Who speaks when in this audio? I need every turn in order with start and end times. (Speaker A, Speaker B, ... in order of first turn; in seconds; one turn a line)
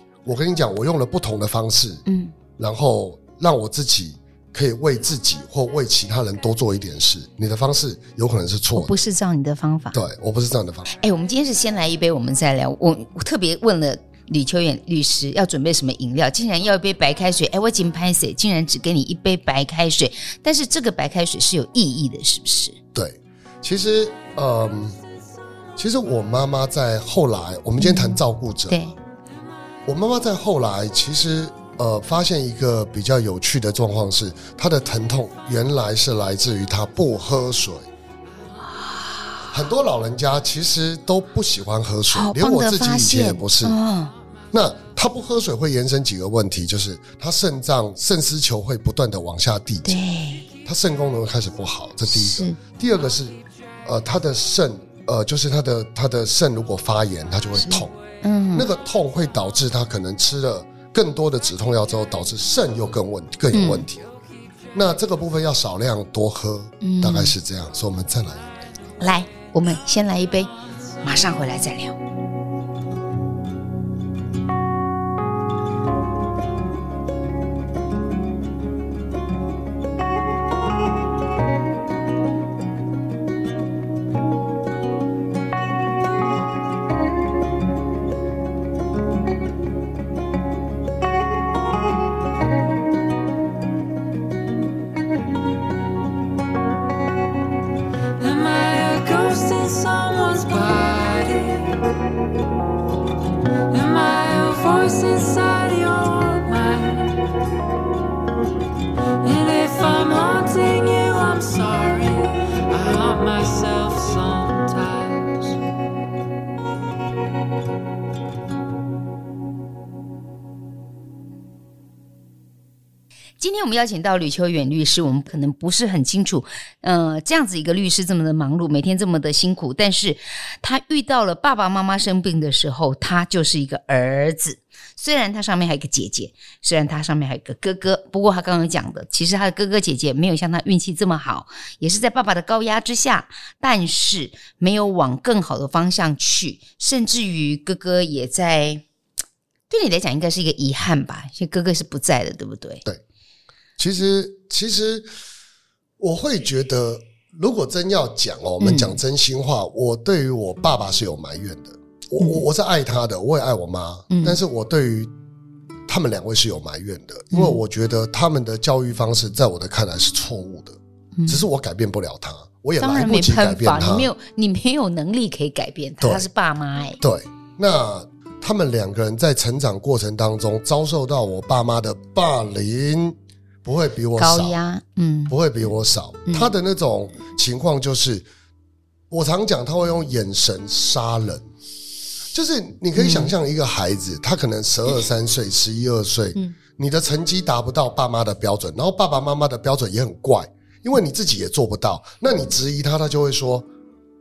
Speaker A: 0.2-2.0
Speaker B: 2.1-2.3
Speaker A: 2.6-8.9
Speaker B: 8.8-10.0
Speaker A: 9.9-10.9
Speaker B: 10.9-22.8
Speaker A: 22.9-25.0
Speaker A: 25.8-28.9
Speaker B: 27.8-28.9
Speaker A: 29.9-37.9
Speaker A: 39.5-43.8
Speaker B: 42.1-44.1
Speaker A: 44.5-50.0
Speaker B: 49.9-50.5
Speaker A: 50.6-58.0
Speaker B: 52.1-52.6
Speaker B: 57.6-58.7
Speaker A: 58.5-64.1
Speaker B: 63.5-63.9
Speaker A: 64.7-68.5
Speaker B: 66.8-67.3
Speaker B: 69.0-72.0
Speaker C: 98.2-101.8
Speaker C: 103.7-107.3
Speaker C: 109.2-115.5
Speaker B: 123.4-148.8
Speaker B: 149.7-152.8
Speaker A: 153.8-155.1
Speaker A: 156.0-165.1
Speaker B: 158.6-159.0
Speaker B: 162.2-162.4
Speaker B: 164.1-164.4
Speaker A: 165.9-174.1
Speaker B: 167.3-167.6
Speaker B: 171.2-171.4
Speaker B: 172.8-177.0
Speaker A: 176.0-176.3
Speaker A: 177.0-184.6
Speaker B: 184.2-185.3
Speaker A: 185.3-188.3
Speaker A: 189.1-191.5
Speaker A: 192.3-203.7
Speaker B: 193.0-193.3